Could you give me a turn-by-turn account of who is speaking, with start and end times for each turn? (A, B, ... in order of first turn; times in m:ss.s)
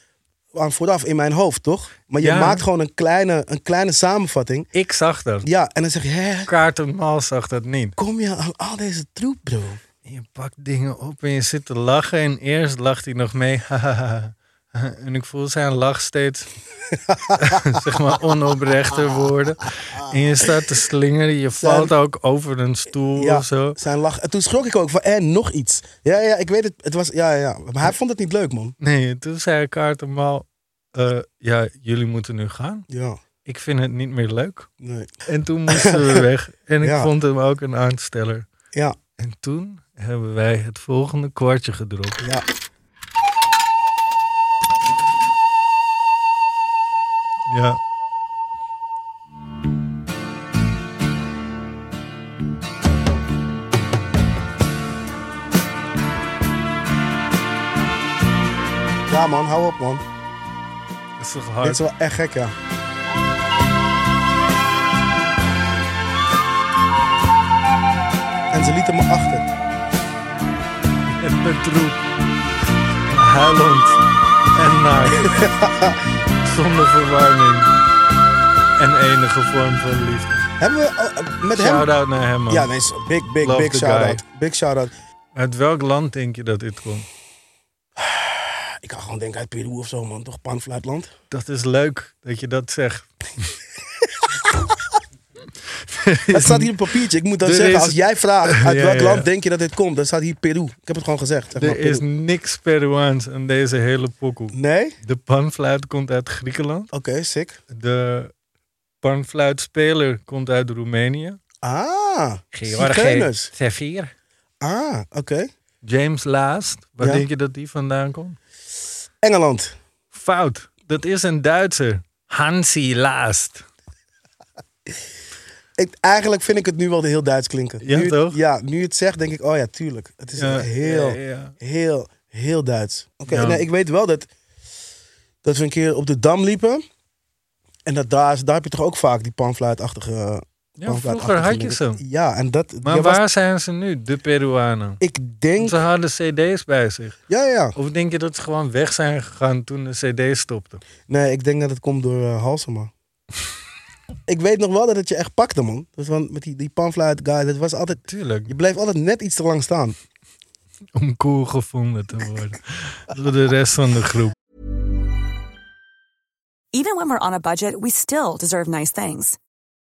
0:00.5-0:04.7 A
0:02.2-0:02.6 B
0:04.7-0:05.5 B
0:05.4-0:06.5 A
0:06.5-0:08.0 B
0:08.0-0:09.8 A
0:10.0-0:16.5 B
0:16.9-0:18.0 A
0:17.4-0:23.8 B
0:20.1-0:20.5 A
0:21.6-0:21.9 A
0:23.2-0:28.8 A
0:28.8-0:32.9 B
0:32.9-0:33.2 A
0:33.5-0:34.7 B
0:34.8-0:35.1 A
0:35.3-0:38.5 B
0:35.7-0:36.2 A
0:36.8-0:37.1 A
0:39.2-0:42.2 B
0:47.5-0:47.8 B
0:59.1-1:00.0 A
1:01.2-1:01.8 B
1:01.6-1:02.6 A
1:08.5-1:09.5 A
1:11.1-1:12.0 B
1:13.1-1:14.0 B
1:14.5-1:15.5 B
1:15.1-1:16.0 A
1:16.4-1:17.7 B
1:18.8-1:20.5 B
1:20.6-1:21.9 A
1:21.5-1:22.7 B
1:22.5-1:24.9 A
1:23.4-1:24.2 B
1:25.4-1:27.1 B
1:28.0-1:31.1 A
1:31.3-1:33.1 B
1:35.9-1:36.7 B
1:36.3-1:42.0 A
1:37.4-1:39.3 B
1:41.6-1:46.9 B
1:44.5-1:45.0 A
1:46.9-1:47.6 A
1:47.7-1:48.3 B
1:49.0-1:51.4 B
1:51.6-1:53.5 A
1:52.5-1:54.1 B
1:54.6-1:55.5 A
1:55.8-1:58.4 B
1:57.0-1:57.3 A
1:59.2-1:59.8 A
2:00.1-2:03.7 B
2:05.8-2:14.3 A
2:07.8-2:08.4 B
2:10.4-2:11.6 B
2:13.3-2:13.6 B
2:15.4-2:16.8 A
2:17.9-2:23.2 A
2:20.8-2:22.0 B
2:22.8-2:25.0 B
2:25.0-2:25.8 A
2:25.6-2:27.2 B
2:27.3-2:27.8 A
2:27.8-2:30.8 B
2:31.1-2:32.9 A
2:34.3-2:40.0 A
2:38.1-2:38.5 B
2:40.9-2:44.3 B
2:46.7-2:49.4 C